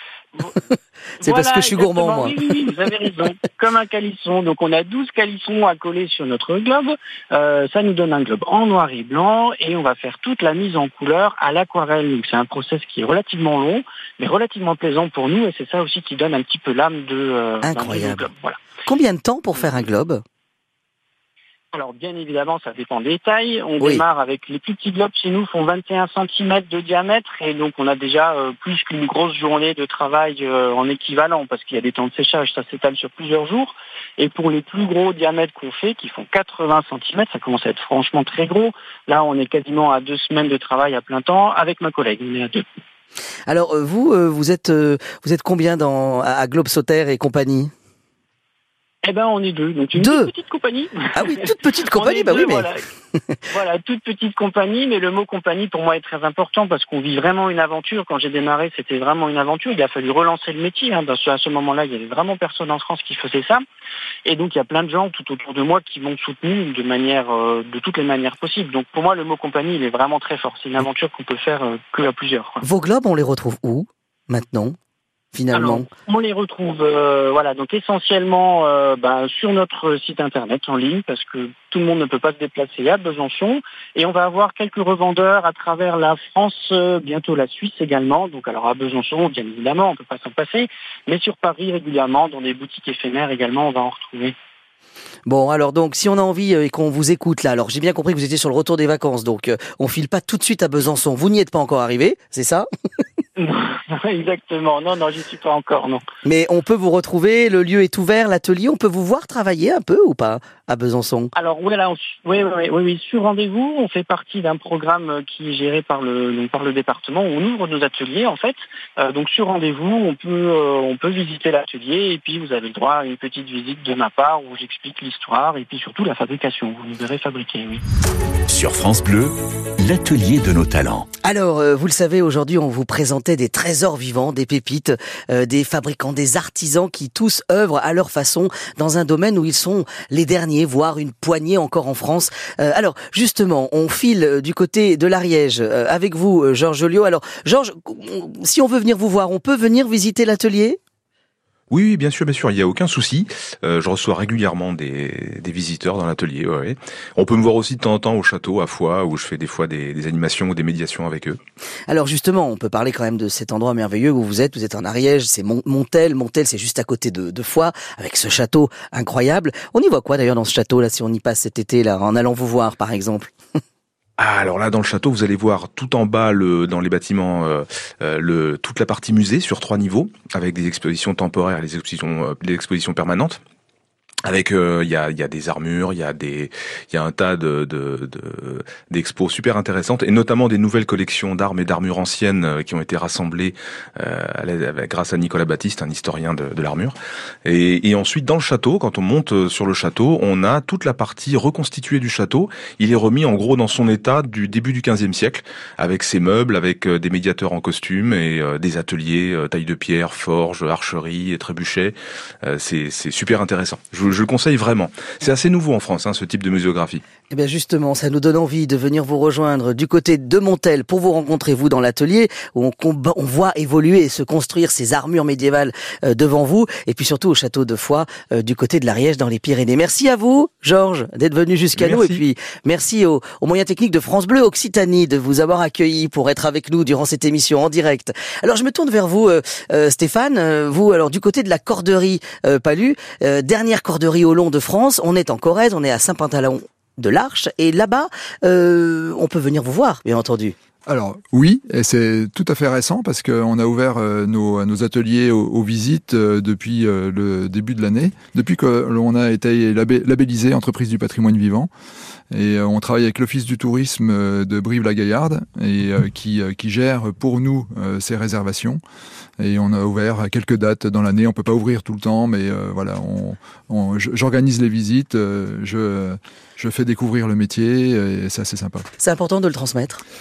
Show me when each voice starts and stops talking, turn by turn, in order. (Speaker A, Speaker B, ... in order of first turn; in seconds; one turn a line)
Speaker A: 0.7-2.5
Speaker B: 1.2-18.6
Speaker A: 17.6-18.3
Speaker A: 18.9-20.2
Speaker B: 21.7-42.6
Speaker A: 43.5-47.7
Speaker B: 49.0-52.9
Speaker A: 50.0-50.3
Speaker A: 51.1-52.7
Speaker B: 53.5-63.6
Speaker B: 64.2-72.6
Speaker A: 72.6-74.8
Speaker A: 75.3-75.9
Speaker B: 75.5-94.3
Speaker A: 95.3-102.7
Speaker B: 103.4-106.1
Speaker A: 106.2-111.3
Speaker B: 111.3-127.8
Speaker C: 128.5-131.1
Speaker A: 131.2-150.8
Speaker D: 151.7-161.4
Speaker A: 161.9-173.3
Speaker D: 174.2-183.4
Speaker D: 184.2-217.0
Speaker A: 217.3-250.6
Speaker D: 231.8-232.2
Speaker E: 250.9-261.7
Speaker E: 262.3-268.8
Speaker E: 269.4-278.9
Speaker A: 279.0-280.0